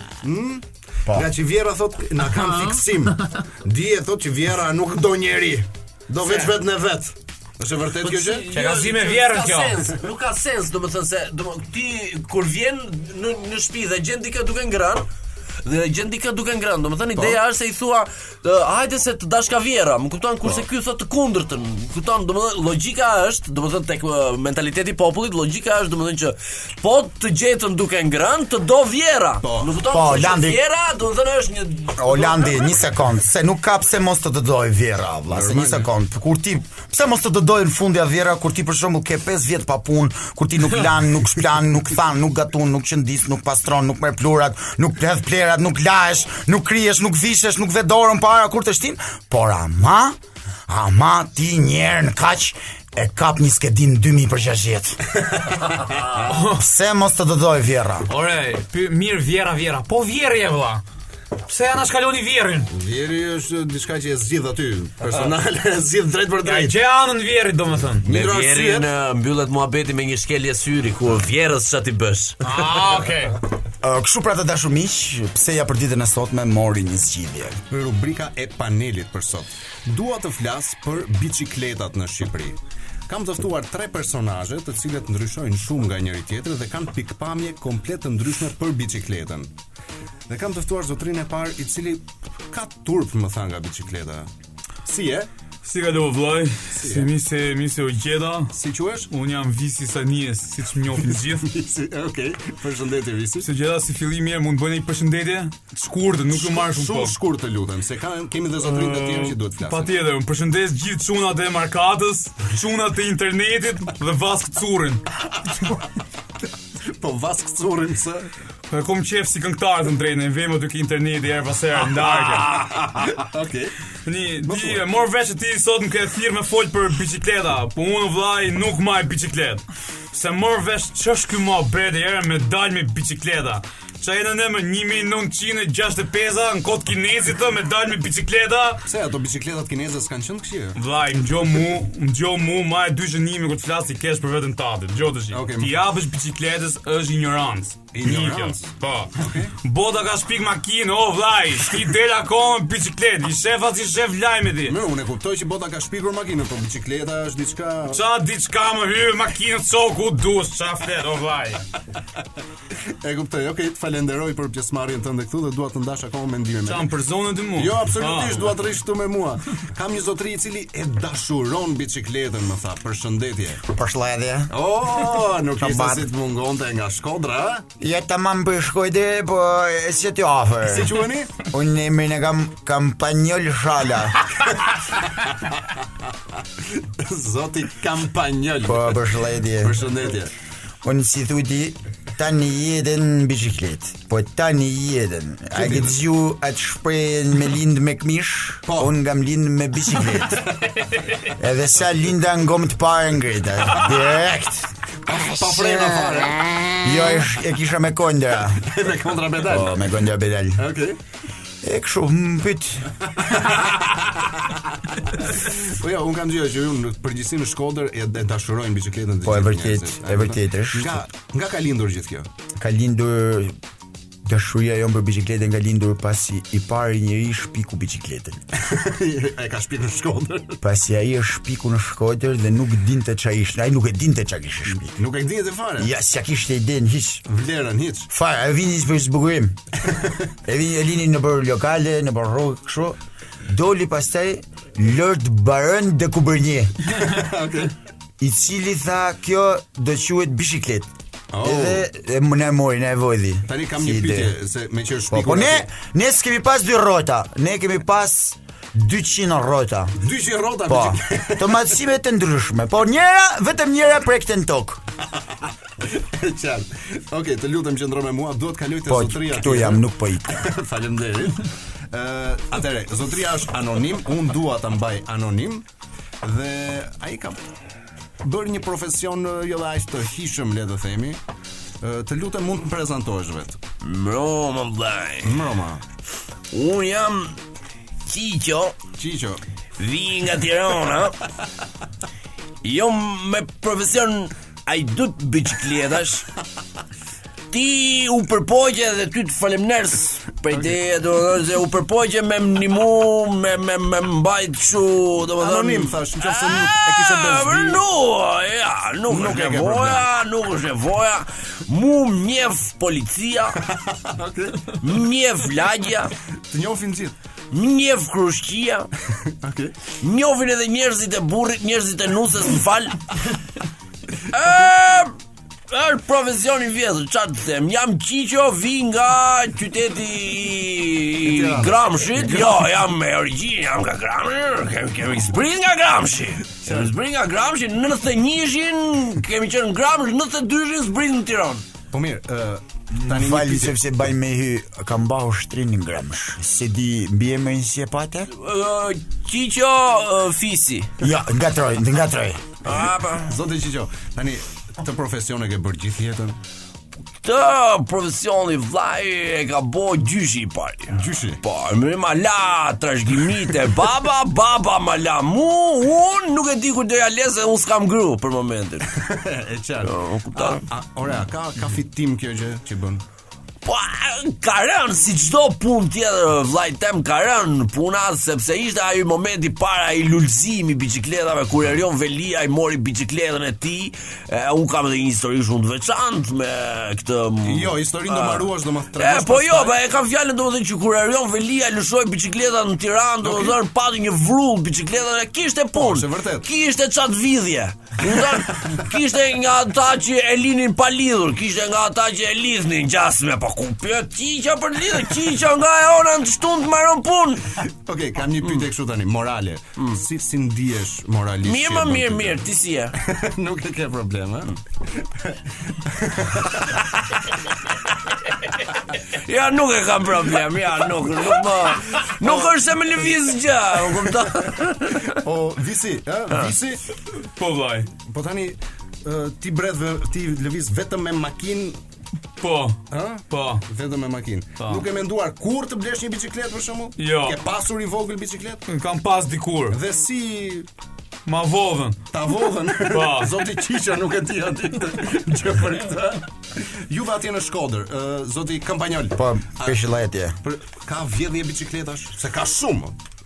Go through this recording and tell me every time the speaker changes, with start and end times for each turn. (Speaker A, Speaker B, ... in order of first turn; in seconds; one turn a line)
Speaker A: 0.2-8.5
Speaker B: 6.2-6.5
Speaker B: 8.0-15.1
Speaker C: 8.3-9.8
Speaker B: 15.6-32.6
Speaker A: 29.4-29.8
Speaker D: 29.9-30.6
Speaker D: 31.9-55.0
Speaker A: 35.3-35.9
Speaker C: 56.2-56.6
Speaker D: 56.4-58.1
Speaker C: 58.1-60.8
Speaker C: 61.5-62.7
Speaker A: 62.7-66.8
Speaker C: 66.4-68.1
Speaker A: 68.0-68.9
Speaker B: 68.1-72.5
Speaker C: 72.4-73.4
Speaker D: 73.8-77.6
Speaker A: 77.7-89.5
Speaker A: 90.3-94.3
Speaker A: 94.8-95.3
Speaker C: 95.6-98.5
Speaker A: 96.8-97.1
Speaker A: 98.5-99.1
Speaker C: 99.1-101.5
Speaker A: 101.3-103.5
Speaker C: 103.4-107.1
Speaker A: 106.3-109.9
Speaker C: 108.7-115.0
Speaker A: 116.8-118.3
Speaker C: 118.7-122.6
Speaker A: 121.9-123.7
Speaker C: 124.0-138.8
Speaker A: 124.5-124.8
Speaker A: 138.9-140.8
Speaker C: 140.8-154.8
Speaker A: 145.3-145.8
Speaker A: 147.9-149.5
Speaker A: 154.7-158.0
Speaker C: 157.9-161.6
Speaker A: 163.0-166.9
Speaker C: 166.6-168.5
Speaker A: 167.5-173.6
Speaker D: 173.6-174.5
Speaker A: 174.5-177.7
Speaker D: 175.6-176.1
Speaker D: 177.8-184.2
Speaker A: 180.6-181.3
Speaker A: 186.6-189.0
Speaker D: 188.6-189.8
Speaker A: 189.6-190.3
Speaker D: 190.8-200.5
Speaker A: 195.5-196.0
Speaker A: 198.7-198.9
Speaker A: 200.2-200.8
Speaker D: 201.3-208.7
Speaker A: 205.1-206.6
Speaker A: 208.6-209.8
Speaker D: 209.4-210.7
Speaker A: 210.6-211.0
Speaker D: 211.6-212.9
Speaker A: 213.2-214.2
Speaker A: 215.3-222.3
Speaker D: 219.2-221.1
Speaker D: 222.6-223.6
Speaker D: 224.2-228.4
Speaker A: 228.5-230.6
Speaker D: 230.6-235.0
Speaker A: 234.8-235.9
Speaker D: 235.8-237.2
Speaker A: 237.2-238.1
Speaker D: 238.1-239.6
Speaker A: 239.9-240.1
Speaker D: 240.4-247.0
Speaker A: 246.9-247.7
Speaker D: 248.2-250.9
Speaker A: 251.3-251.8
Speaker D: 251.4-254.3
Speaker A: 253.5-255.7
Speaker D: 255.1-260.0
Speaker A: 260.0-261.6
Speaker D: 260.6-264.8
Speaker A: 265.8-275.6
Speaker D: 268.9-270.4
Speaker A: 276.2-277.4
Speaker A: 278.2-281.2
Speaker A: 281.8-283.6
Speaker B: 283.8-285.4
Speaker A: 285.2-285.8
Speaker B: 286.5-287.4
Speaker B: 288.1-288.7
Speaker A: 289.0-289.4
Speaker B: 289.8-291.2
Speaker B: 292.6-296.3
Speaker B: 297.5-313.6
Speaker A: 305.4-307.8
Speaker A: 309.1-310.0
Speaker A: 313.9-314.8
Speaker B: 314.8-316.1
Speaker A: 316.5-317.1
Speaker B: 317.5-318.9
Speaker A: 319.2-319.8
Speaker B: 319.9-323.1
Speaker B: 324.3-325.1
Speaker B: 325.7-341.6
Speaker A: 331.2-332.6
Speaker A: 336.6-336.9
Speaker A: 341.9-343.8
Speaker D: 342.9-348.3
Speaker B: 348.3-350.9
Speaker D: 351.0-352.4
Speaker B: 352.6-353.3
Speaker A: 353.2-356.4
Speaker B: 357.2-368.9
Speaker A: 360.9-361.4
Speaker A: 369.0-373.0
Speaker B: 369.8-370.6
Speaker B: 373.6-407.5
Speaker A: 387.4-389.7
Speaker A: 393.2-393.5
Speaker A: 395.7-396.4
Speaker A: 398.1-398.7
Speaker A: 407.9-412.4
Speaker B: 411.4-412.9
Speaker A: 413.0-416.8
Speaker B: 419.1-425.1
Speaker A: 425.1-426.8
Speaker C: 427.4-427.9
Speaker A: 428.0-431.8
Speaker C: 432.4-433.6
Speaker A: 432.9-438.6
Speaker C: 434.6-434.9
Speaker C: 437.0-437.4
Speaker C: 438.7-439.8
Speaker A: 439.7-440.7
Speaker C: 441.2-442.0
Speaker A: 442.1-449.8
Speaker C: 442.8-443.4
Speaker D: 449.1-450.4
Speaker A: 450.4-452.9